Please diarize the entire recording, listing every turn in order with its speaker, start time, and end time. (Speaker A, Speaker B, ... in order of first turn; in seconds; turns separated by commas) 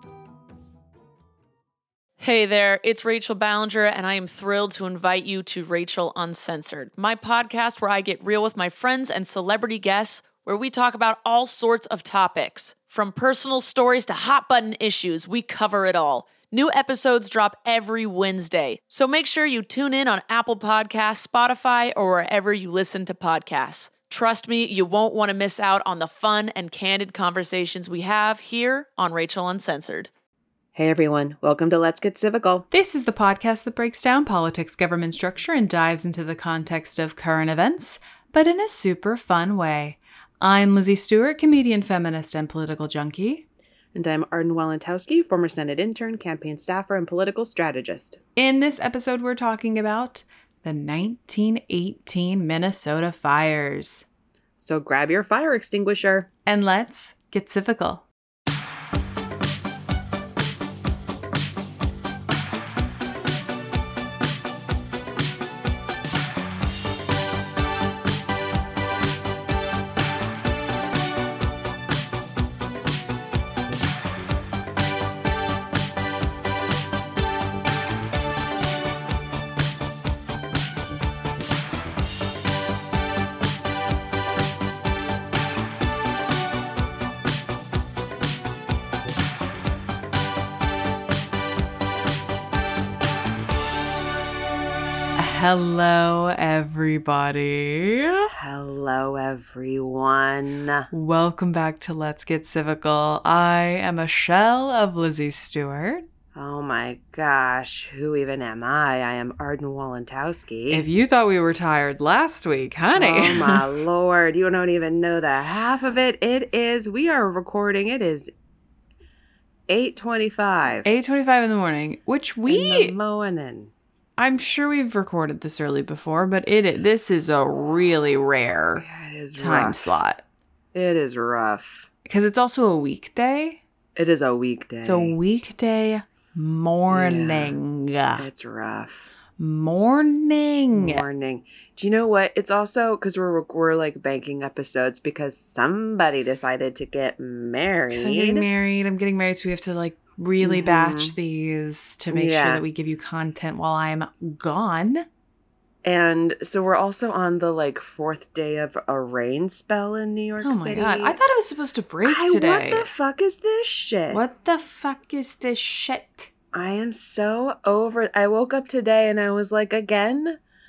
Speaker A: 2.2-30.1, Speaker B: 30.8-32.7, Speaker C: 32.7-43.5, Speaker B: 44.0-48.2, Speaker C: 48.4-54.1, Speaker B: 54.6-56.3, Speaker C: 56.5-58.1, Speaker C: 95.2-98.3, Speaker B: 98.3-100.9, Speaker C: 100.9-106.0, Speaker B: 106.3-110.9, Speaker C: 110.7-113.7, Speaker B: 113.0-118.3, Speaker B: 119.7-120.9, Speaker C: 120.8-123.0, Speaker B: 122.5-123.7, Speaker C: 124.2-128.8, Speaker B: 128.8-129.9, Speaker C: 129.4-130.2, Speaker B: 130.8-131.9, Speaker C: 132.1-133.6, Speaker B: 134.0-135.2, Speaker C: 134.8-138.3, Speaker B: 136.9-137.6, Speaker B: 138.2-139.1, Speaker C: 139.4-141.1, Speaker B: 140.7-148.4, Speaker C: 147.9-155.1, Speaker B: 150.4-151.2, Speaker B: 152.1-152.6, Speaker B: 155.8-161.2, Speaker C: 160.4-162.9, Speaker B: 162.0-164.2, Speaker C: 164.1-166.3, Speaker B: 166.5-170.4